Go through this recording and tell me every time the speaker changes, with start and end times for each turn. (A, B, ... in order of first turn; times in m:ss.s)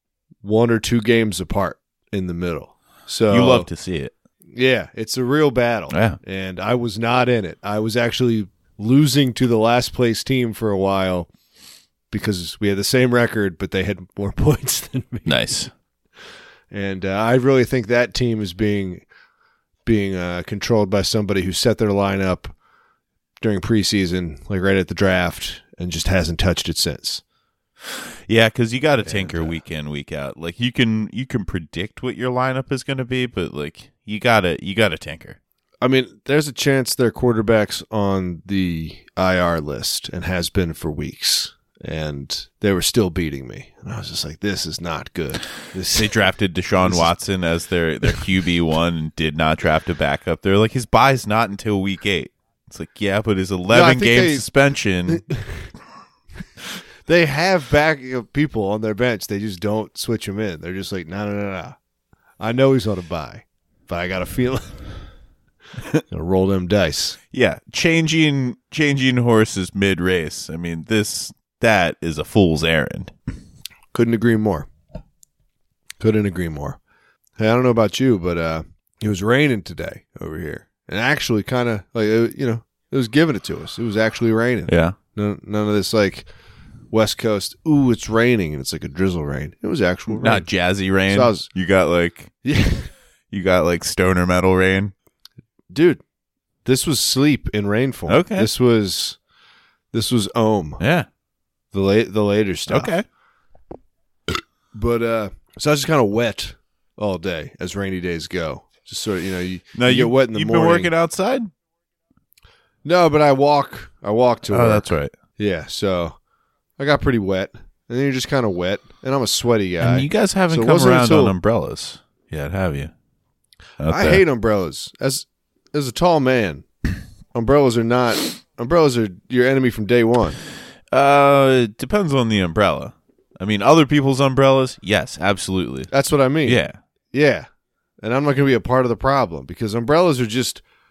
0:00.4-0:03.7 A
0:03.3-0:04.1 B
0:04.5-0:11.3 A
0:05.9-0:06.2 B
0:12.1-0:15.5 A
0:15.2-0:15.7 B
0:16.7-0:19.0 A
0:19.8-0:22.5 A
0:23.4-0:27.2 A
0:28.3-0:35.4 B
0:29.0-0:29.6 A
0:35.8-0:46.3 A
0:45.9-0:55.3 B
0:46.8-0:47.1 A
0:53.7-0:54.5 A
0:55.1-0:55.7 A
0:57.0-1:01.8 A
1:02.4-1:04.8 A
1:06.1-1:07.2 A
1:07.3-1:13.1 B
1:13.9-1:14.7 A
1:16.0-1:16.8 A
1:17.4-1:26.3 A
1:24.7-1:25.0 B
1:26.9-1:30.5 A
1:30.1-1:32.3 B
1:31.1-1:31.5 A
1:32.4-1:32.9 A
1:33.3-1:34.9 B
1:35.7-1:36.0 A
1:36.6-1:39.2 A
1:38.1-1:38.5 B
1:39.9-1:40.8 A
1:40.8-1:41.1 B
1:41.7-1:42.9 A
1:42.7-1:43.0 B
1:44.7-1:50.9 A
1:49.7-1:51.5 B
1:52.8-1:56.2 A
1:54.5-1:55.1 B
1:56.8-2:01.4 A
1:59.8-2:02.9 B
2:03.8-2:04.2 B
2:03.9-2:06.6 A
2:07.3-2:10.4 A
2:10.9-2:15.9 B
2:15.9-2:17.5 A
2:16.4-2:16.8 B
2:18.0-2:20.6 A